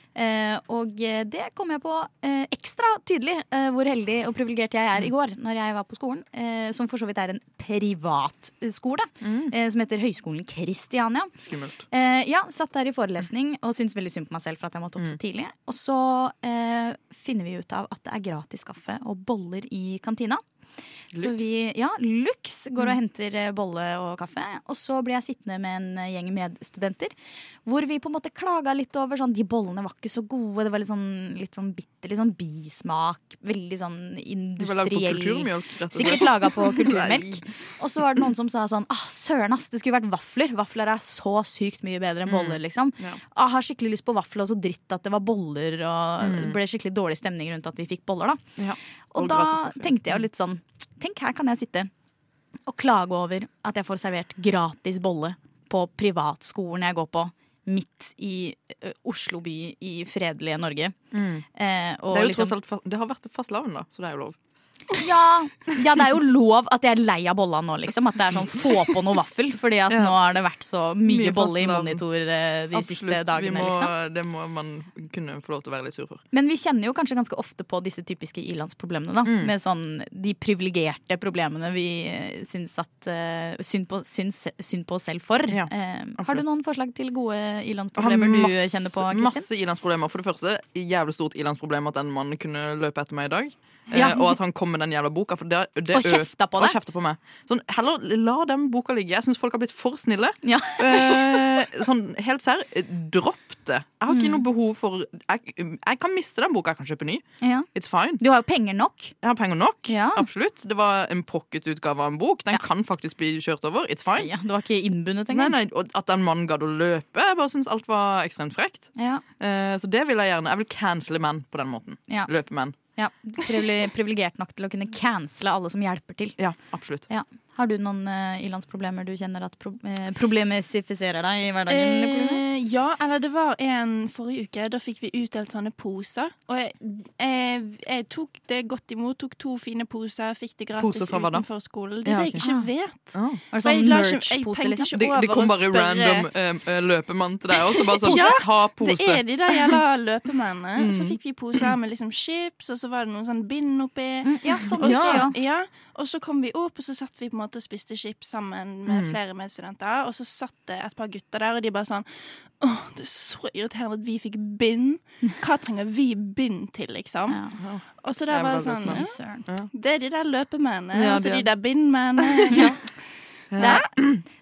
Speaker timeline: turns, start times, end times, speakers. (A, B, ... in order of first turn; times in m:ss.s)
0:00.1-0:11.4 A
0:09.2-0:09.5 B
0:11.4-0:11.8 B
0:11.9-0:20.4 A
0:21.1-0:48.4 A
0:21.1-0:21.4 B
0:34.6-0:37.4 B
0:42.3-0:43.2 B
0:46.2-0:46.6 B
0:48.6-0:50.3 B
0:49.1-0:51.9 A
0:52.7-1:01.0 A
1:01.1-1:01.4 B
1:01.5-1:02.5 A
1:02.1-1:04.4 B
1:04.9-1:13.9 A
1:09.9-1:10.2 B
1:11.0-1:12.0 B
1:12.7-1:16.2 B
1:16.3-1:29.5 A
1:19.2-1:19.5 B
1:25.5-1:26.4 B
1:28.0-1:48.2 B
1:33.9-1:34.3 A
1:35.9-1:36.8 A
1:40.4-1:41.4 A
1:44.1-1:44.4 A
1:47.4-1:49.1 A
1:49.2-1:54.3 B
1:49.9-1:50.3 A
1:54.2-1:55.6 A
1:55.3-2:02.8 B
1:59.0-1:59.2 A
2:02.1-2:06.4 A
2:06.4-2:07.1 B
2:07.0-2:12.4 A
2:11.7-2:26.3 C
2:20.8-2:21.5 B
2:22.0-2:22.4 B
2:22.4-2:22.7 A
2:23.1-2:23.4 B
2:23.5-2:24.9 A
2:24.9-2:29.8 B
2:27.8-2:52.9 C
2:28.0-2:28.4 A
2:30.7-2:31.6 B
2:34.2-2:35.3 A
2:34.8-2:35.3 B
2:38.9-2:39.2 B
2:47.3-2:47.6 A
2:47.6-2:49.7 B
2:48.8-2:49.4 A
2:50.9-2:51.5 B
2:52.3-2:52.8 B
2:53.5-2:54.2 B
2:53.6-2:54.0 A